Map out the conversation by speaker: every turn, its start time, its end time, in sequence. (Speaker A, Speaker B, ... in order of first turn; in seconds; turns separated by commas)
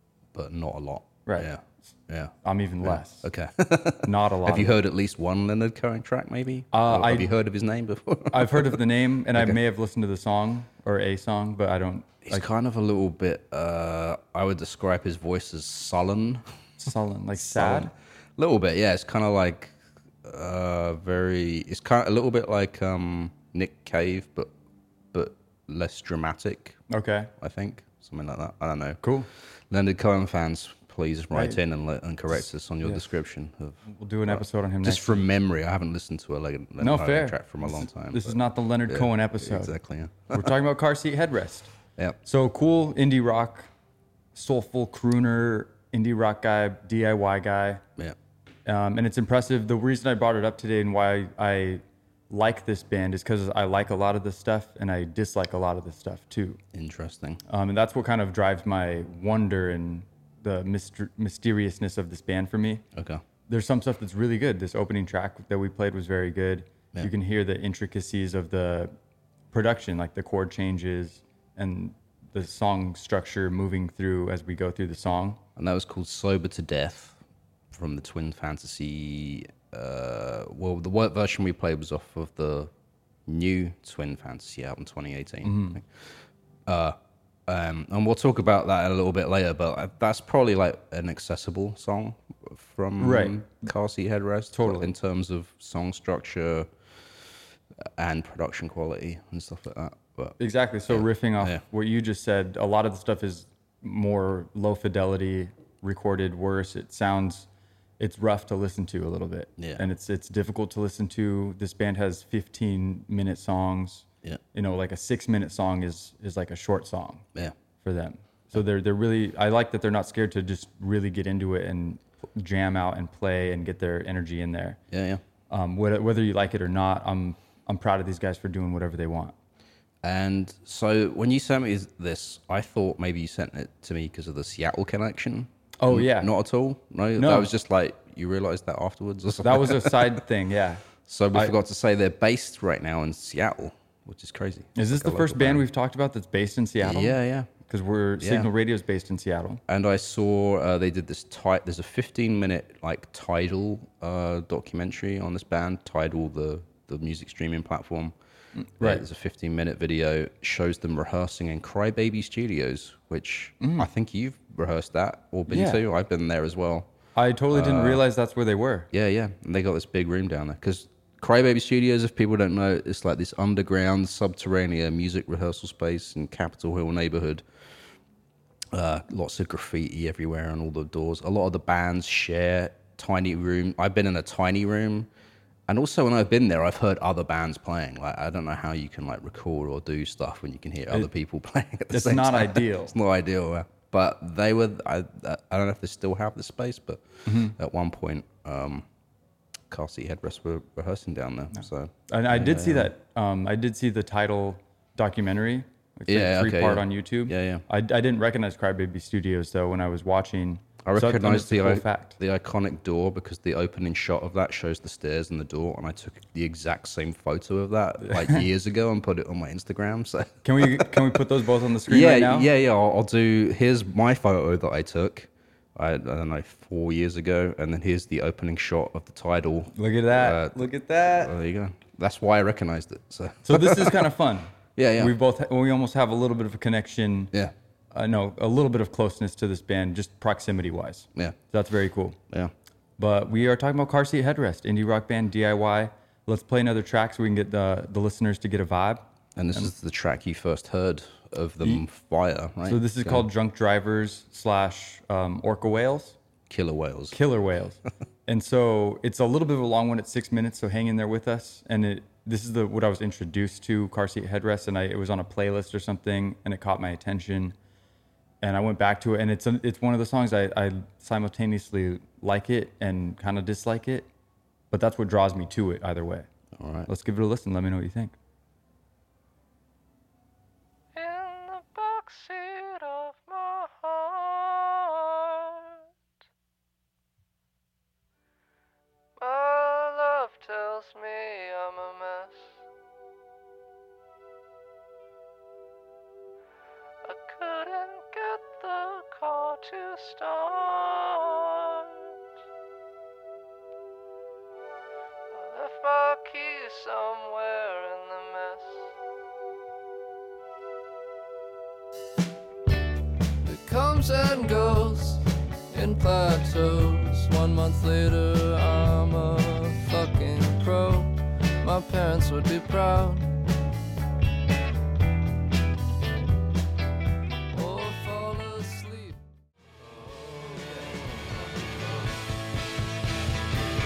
Speaker A: 0.3-8.8, Speaker B: 1.2-1.5, Speaker B: 2.4-3.3, Speaker B: 4.0-4.7, Speaker B: 6.7-7.3, Speaker B: 8.3-12.4, Speaker A: 12.3-16.5, Speaker B: 16.8-17.9, Speaker A: 17.4-24.5, Speaker A: 25.1-26.8, Speaker B: 26.9-27.3, Speaker A: 27.4-40.5, Speaker B: 29.0-29.3, Speaker B: 31.3-31.6, Speaker B: 33.9-35.2, Speaker B: 36.8-39.7, Speaker B: 40.3-41.7, Speaker B: 42.2-43.7, Speaker B: 44.3-47.8, Speaker B: 48.6-56.6, Speaker A: 56.7-57.4, Speaker B: 57.5-62.8, Speaker A: 62.9-63.2, Speaker B: 63.5-68.9, Speaker B: 69.5-75.4, Speaker A: 75.5-77.2, Speaker A: 77.7-82.7, Speaker A: 83.2-96.7, Speaker B: 85.4-85.8, Speaker B: 93.0-93.4, Speaker B: 94.5-94.9, Speaker A: 97.8-100.3, Speaker B: 100.4-107.5, Speaker A: 100.9-101.6, Speaker B: 108.0-117.2, Speaker A: 109.6-109.8, Speaker B: 117.8-124.8, Speaker A: 124.9-125.2, Speaker B: 125.5-129.3, Speaker A: 130.0-140.2, Speaker B: 135.8-136.3, Speaker B: 137.2-137.5, Speaker B: 139.4-141.5, Speaker A: 141.1-145.6, Speaker B: 144.8-149.6, Speaker A: 146.8-147.5, Speaker A: 148.2-148.5, Speaker A: 149.7-158.1, Speaker B: 158.5-159.0, Speaker A: 158.8-166.9, Speaker B: 163.6-163.9, Speaker B: 165.5-165.8, Speaker B: 167.1-168.9, Speaker A: 167.5-168.0, Speaker A: 168.9-177.4, Speaker A: 178.7-185.1, Speaker A: 185.7-198.8, Speaker B: 191.9-192.9, Speaker B: 197.2-197.6, Speaker A: 199.7-202.9, Speaker B: 201.5-212.2, Speaker A: 206.1-207.6, Speaker A: 210.8-220.9, Speaker B: 218.1-218.4, Speaker B: 220.4-222.5, Speaker A: 221.9-234.1, Speaker B: 229.7-231.3, Speaker B: 233.4-237.3, Speaker A: 234.8-235.1, Speaker B: 237.9-242.2, Speaker B: 243.0-249.7, Speaker A: 249.3-253.2, Speaker B: 252.6-256.2, Speaker A: 256.5-257.2, Speaker B: 257.1-267.6, Speaker B: 268.4-274.1, Speaker B: 274.7-276.3, Speaker A: 276.5-276.9, Speaker B: 276.9-278.1, Speaker C: 280.9-285.8, Speaker C: 289.2-292.6, Speaker C: 297.0-302.1, Speaker C: 305.3-308.9, Speaker C: 313.4-323.4, Speaker C: 327.5-329.2, Speaker C: 329.8-332.2